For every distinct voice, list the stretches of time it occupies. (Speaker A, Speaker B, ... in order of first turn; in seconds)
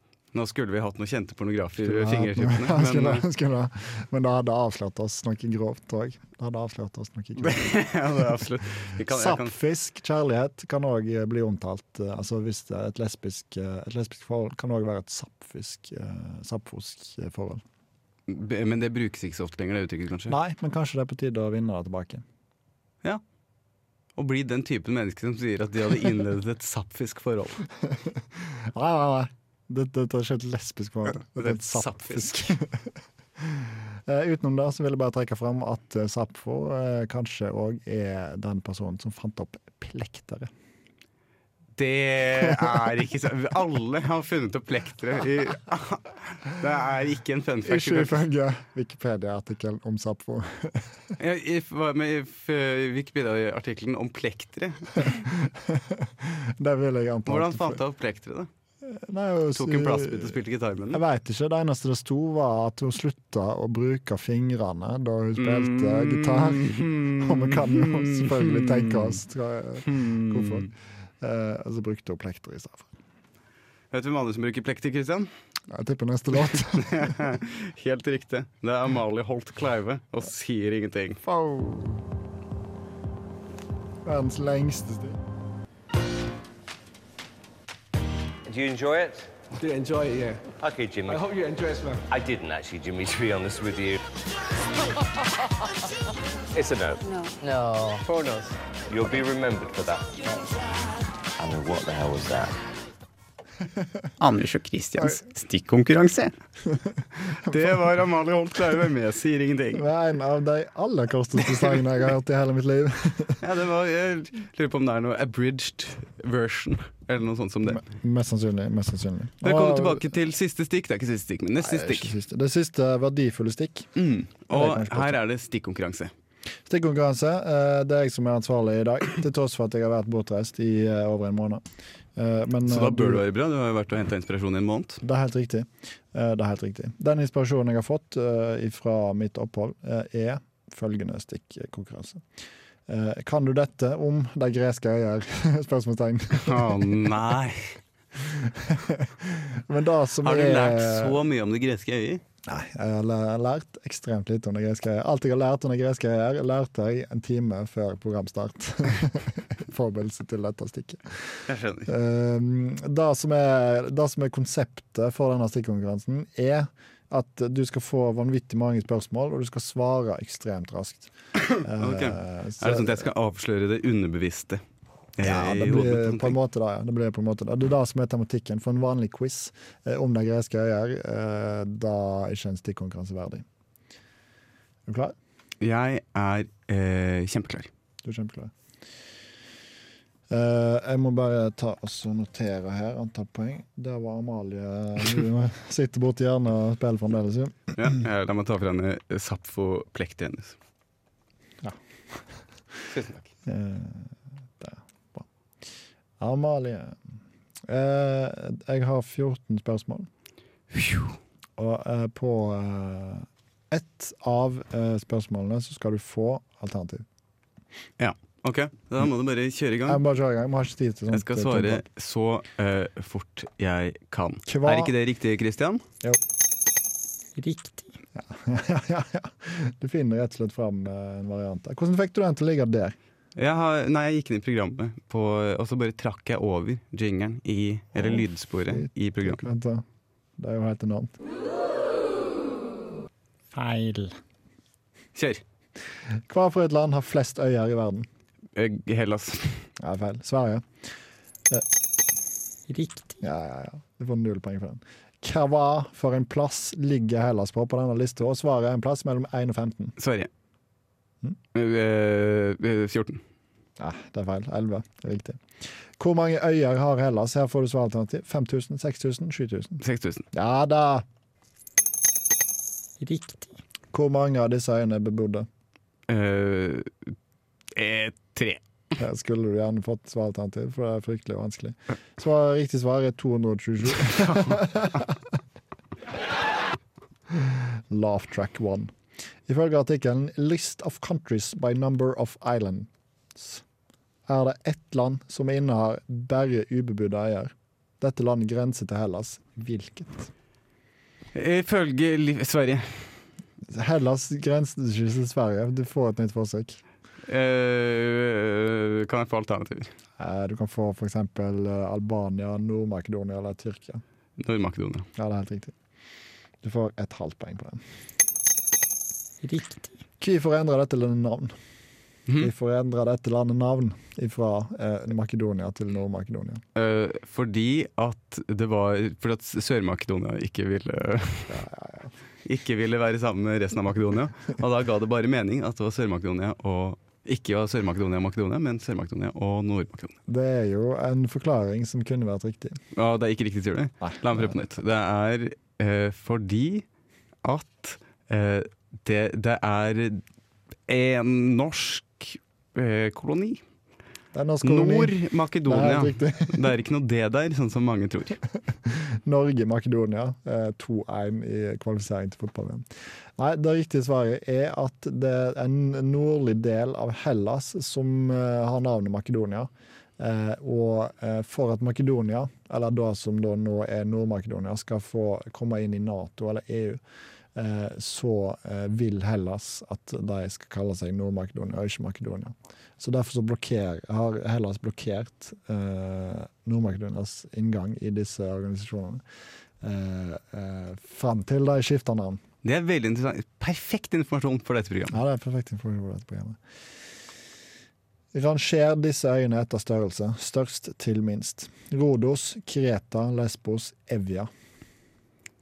Speaker A: 0.3-3.2, 7.4-9.5, 18.3-20.4, 24.1-27.6, 31.3-32.5, 41.8-48.2, 51.2-55.2, 57.3-58.5, 59.5-61.0, 65.4-69.2, 69.8-70.7, 73.9-75.3, 76.6-81.2, 107.2-109.8, 113.4-117.8, 119.4-122.1, 124.0-126.1, 132.6-135.0, 146.3-147.8, 150.2-152.2, 161.5-161.9, 171.5-174.6, 175.2-176.4, 185.6-187.7, 197.8-200.6, 202.9-203.3, 210.7-211.2, 218.0-220.0, 221.1-225.8, 233.3-239.4, 245.1-245.4, 248.6-249.7, 260.0-260.3, 261.5-263.2, 269.8-270.2, 276.1-277.1, 277.7-278.6, 301.3-303.1, 307.3-309.9, 314.4-315.1, 326.7-331.6, 332.4-340.1, 342.9-346.9, 347.4-350.2, 350.9-353.6, 354.6-358.4, 392.6-395.2
Speaker B: 1.8-7.8, 9.0-17.6, 20.3-22.2, 27.8-32.8, 33.4-40.5, 42.4-42.7, 47.6-51.1, 55.0-57.8, 58.8-60.4, 60.9-72.9, 75.7-77.3, 81.2-82.0, 84.0-85.2, 103.6-104.1, 106.7-107.0, 109.7-113.4, 117.7-120.0, 121.6-123.9, 124.5-125.2, 126.7-131.6, 132.2-133.2, 135.0-142.2, 142.9-147.1, 148.2-151.2, 152.4-173.1, 175.2-183.4, 184.8-185.1, 188.0-188.5, 190.3-198.0, 201.6-202.2, 203.4-205.2, 206.2-207.0, 207.7-210.1, 211.6-217.1, 219.8-221.8, 224.5-224.9, 228.2-232.9, 238.0-239.8, 240.4-241.2, 246.2-248.1, 249.8-250.7, 253.2-260.0, 263.8-265.4, 266.0-269.8, 270.3-271.0, 273.9-275.5, 279.0-285.3, 287.3-288.9, 289.5-293.6, 294.3-300.3, 303.7-306.8, 310.2-314.0, 315.1-315.7, 316.6-317.8, 320.2-321.5, 322.3-326.6, 331.5-332.1, 340.3-342.8, 344.0-344.5, 354.3-356.7, 358.8-377.0, 377.5-389.2, 389.8-392.4, 395.1-396.6, 398.3-404.5
Speaker C: 88.5-89.3, 90.6-91.2, 92.1-94.0, 96.5-97.1, 98.9-100.2, 101.5-102.0
Speaker D: 89.5-90.5, 91.1-92.0
Speaker E: 104.2-106.3, 227.3-228.0, 243.5-244.2, 252.7-253.2, 273.0-273.6, 319.4-320.0